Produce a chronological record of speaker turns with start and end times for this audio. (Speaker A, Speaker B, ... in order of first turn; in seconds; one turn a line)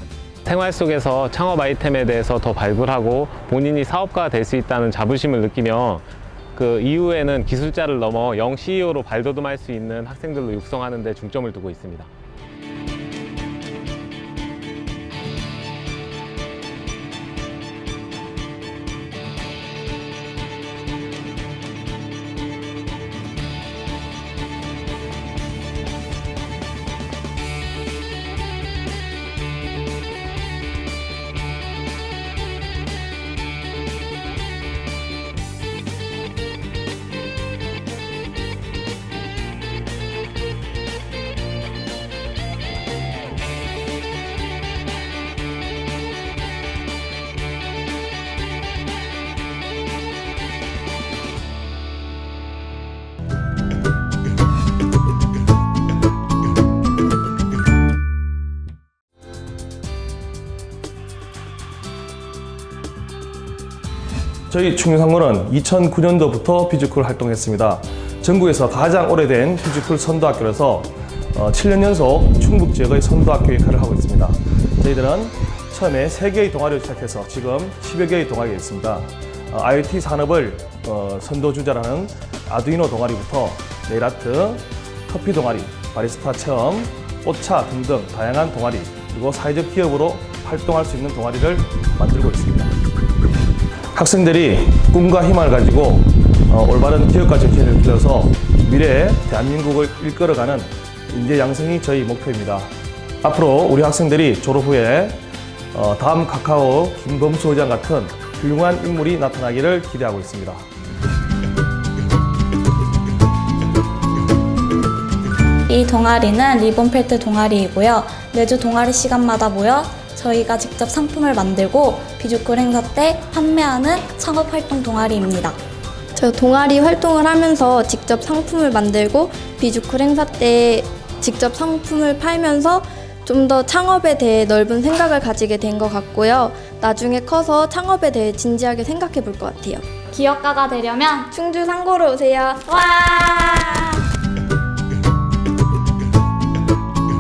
Speaker A: 0.4-12.1
Speaker B: 64.5-92.7
Speaker B: 93.9-102.7
Speaker B: 103.2-105.2
Speaker B: 105.7-110.7
Speaker C: 115.7-125.6
Speaker D: 126.2-139.9
Speaker C: 140.1-141.3
Speaker D: 141.3-142.6